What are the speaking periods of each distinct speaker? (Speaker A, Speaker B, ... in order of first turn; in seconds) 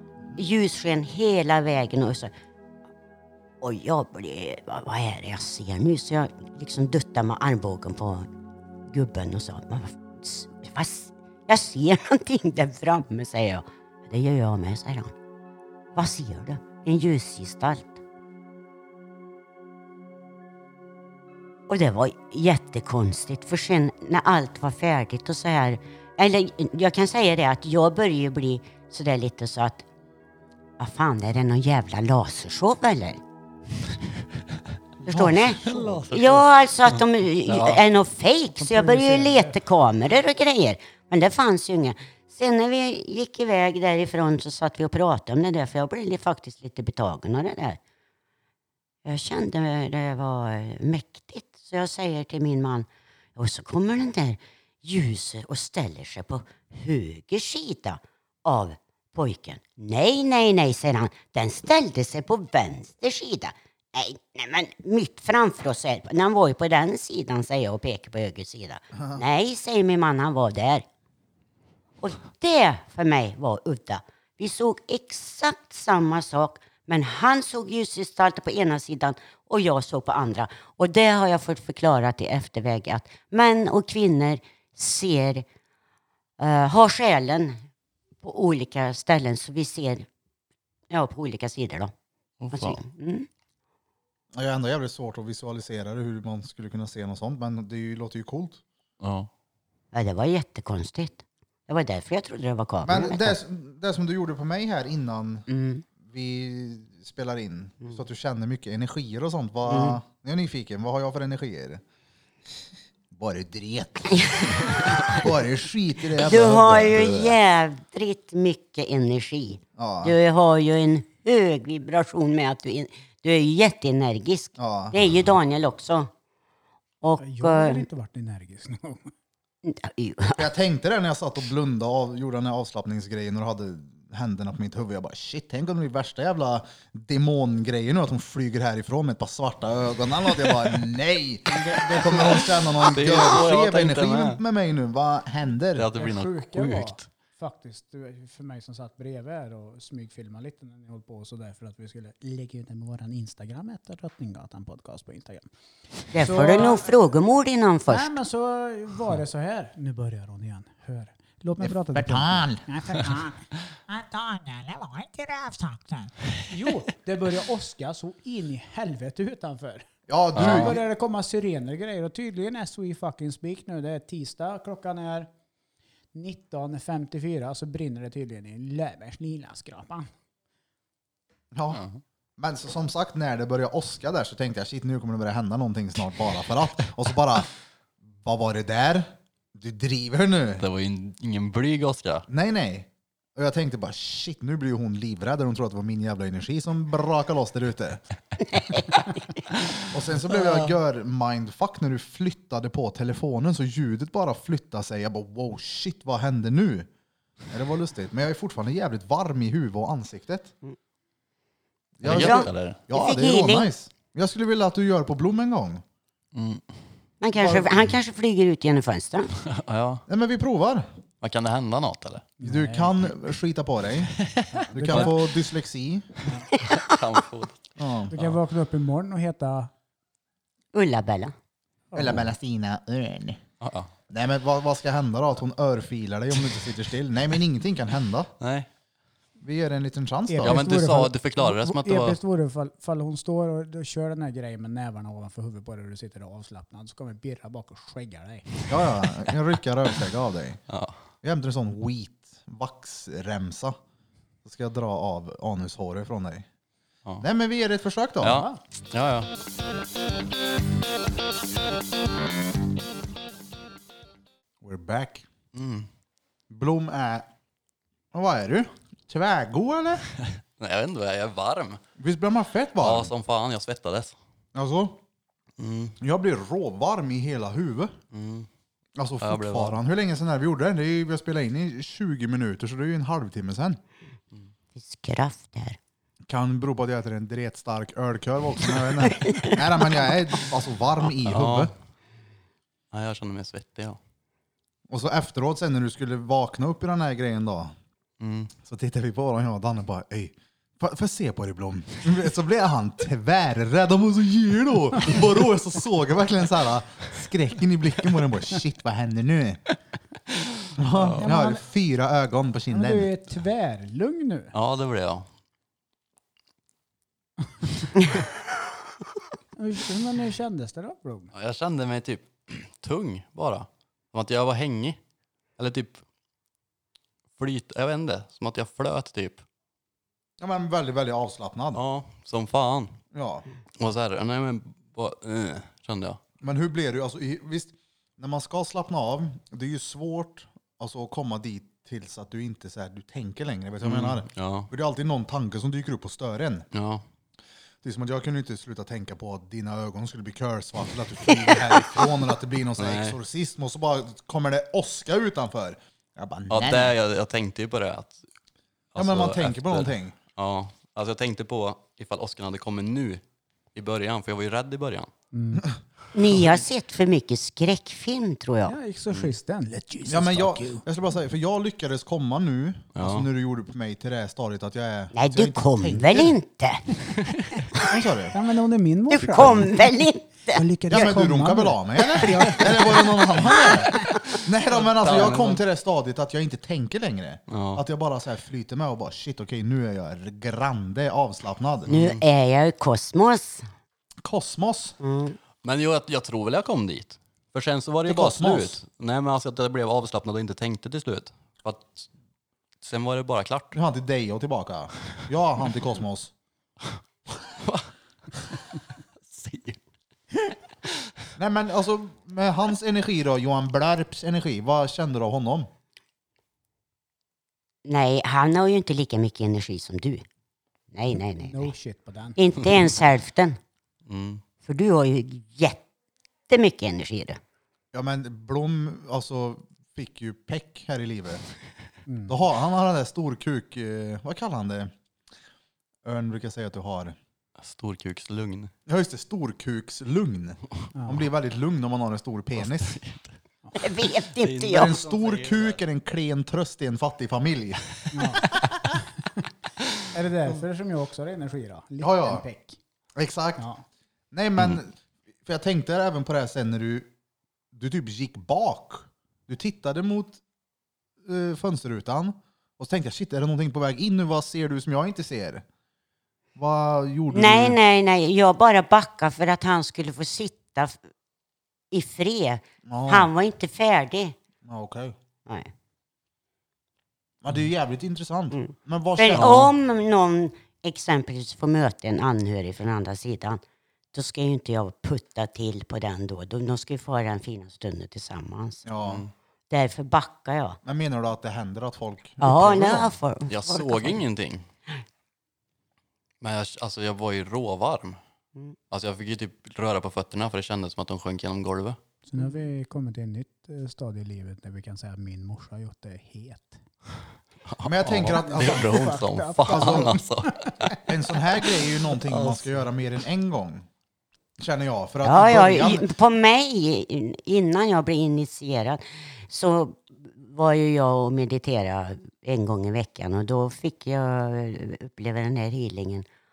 Speaker A: 0.3-2.3, 3.6-8.3, 8.9-15.1, 15.9-18.0, 21.7-29.9, 30.8-33.2, 35.0-47.8, 49.0-70.8, 72.0-85.5, 86.4-87.6, 88.2-90.1, 90.9-91.9, 92.5-93.3, 99.9-103.4, 105.5-105.8, 109.7-110.0, 114.1-115.3, 116.1-126.1, 127.0-127.8, 129.6-130.5, 156.1-158.1, 198.5-198.9, 212.1-213.7, 217.2-219.3, 226.5-227.0, 230.7-231.3, 284.7-285.8, 289.0-289.6, 351.3-351.6, 366.1-368.8, 375.1-376.9, 379.2-381.1, 391.9-393.7, 395.0-395.4, 417.9-420.2, 420.9-421.7, 422.4-423.6, 424.6-425.8, 426.5-427.4, 443.8-445.0, 467.3-471.0, 471.9-474.4, 478.5-483.6, 484.1-488.9, 489.7-490.8, 492.4-494.2, 515.2-526.3
Speaker B: 35.6-36.4, 37.5-37.8, 92.4-92.8, 99.0-99.3, 141.8-144.4, 145.8-147.1, 170.3-170.8, 181.7-182.0, 190.6-192.3, 212.0-212.8, 216.3-216.6, 219.4-220.0, 221.2-222.3, 224.3-225.2, 226.7-227.6, 233.6-233.9, 238.4-238.7, 240.4-242.2, 258.2-259.3, 265.5-265.9, 270.4-271.8, 272.8-274.1, 275.6-276.0, 278.1-278.5, 279.2-279.8, 291.2-291.7, 292.9-294.0, 298.2-298.5, 311.0-311.3, 314.5-315.3, 321.3-325.0, 325.6-326.0, 327.4-329.4, 331.7-333.0, 333.8-336.2, 343.8-344.7, 346.7-347.0, 352.8-353.2, 356.5-358.2, 358.9-365.1, 373.0-373.3, 383.9-385.6, 387.5-387.8, 391.9-392.2, 395.6-402.1, 402.8-403.8, 407.6-409.8, 410.4-410.9, 424.1-424.4, 437.6-438.7, 442.6-443.4, 444.4-445.8, 479.3-479.7, 489.0-489.3, 492.5-494.7, 496.4-498.2, 498.9-502.0, 507.7-510.9
Speaker C: 35.6-36.0, 38.6-39.6, 127.2-129.1, 145.9-155.5, 156.1-156.9, 157.9-163.4, 166.5-175.3, 176.1-180.1, 222.4-222.9, 224.5-225.2, 228.1-229.7, 231.9-232.3, 240.3-248.6, 311.1-311.6, 312.7-314.5, 319.6-321.3, 365.3-365.7, 368.7-370.9, 378.3-383.6, 421.4-422.4, 432.1-432.4, 440.9-441.3, 448.1-448.5, 449.0-449.4, 450.1-452.8, 453.6-453.8, 502.3-506.8, 508.2-511.0, 511.7-512.6
Speaker D: 94.3-98.6, 102.8-105.5, 106.0-111.8, 113.1-117.4, 119.8-120.2, 124.6-125.0, 130.4-145.9, 161.6-162.7, 170.1-170.8, 181.5-181.8, 182.4-187.5, 188.2-190.7, 192.3-198.0, 199.9-206.9, 207.5-210.5, 212.0-215.8, 220.1-220.9, 222.4-224.1, 224.7-226.3, 227.8-228.1, 231.9-233.4, 234.1-238.3, 239.4-240.6, 248.7-250.6, 251.2-253.8, 254.4-256.5, 257.2-258.5, 264.6-265.3, 266.5-267.3, 268.1-270.0, 272.0-273.1, 274.6-275.0, 276.0-277.9, 279.0-283.8, 286.3-291.7, 294.9-297.8, 298.6-309.6, 310.8-313.1, 330.4-331.8, 333.1-333.4, 336.4-346.7, 347.8-357.0, 359.0-360.2, 370.1-376.3, 377.8-378.4, 380.9-391.9, 394.2-395.0, 398.1-398.8, 403.7-406.3, 411.4-415.7, 427.9-431.4, 432.3-434.9, 436.0-437.2, 438.9-443.0, 444.7-447.8, 452.0-452.4, 453.2-453.6, 454.3-457.1, 457.7-460.4, 461.2-465.6, 466.6-467.8, 472.9-473.3, 474.6-475.1, 477.4-479.7, 488.9-489.2, 490.9-493.1, 507.8-509.1, 509.7-510.1, 511.1-513.9, 514.6-516.1
Speaker E: 163.9-166.1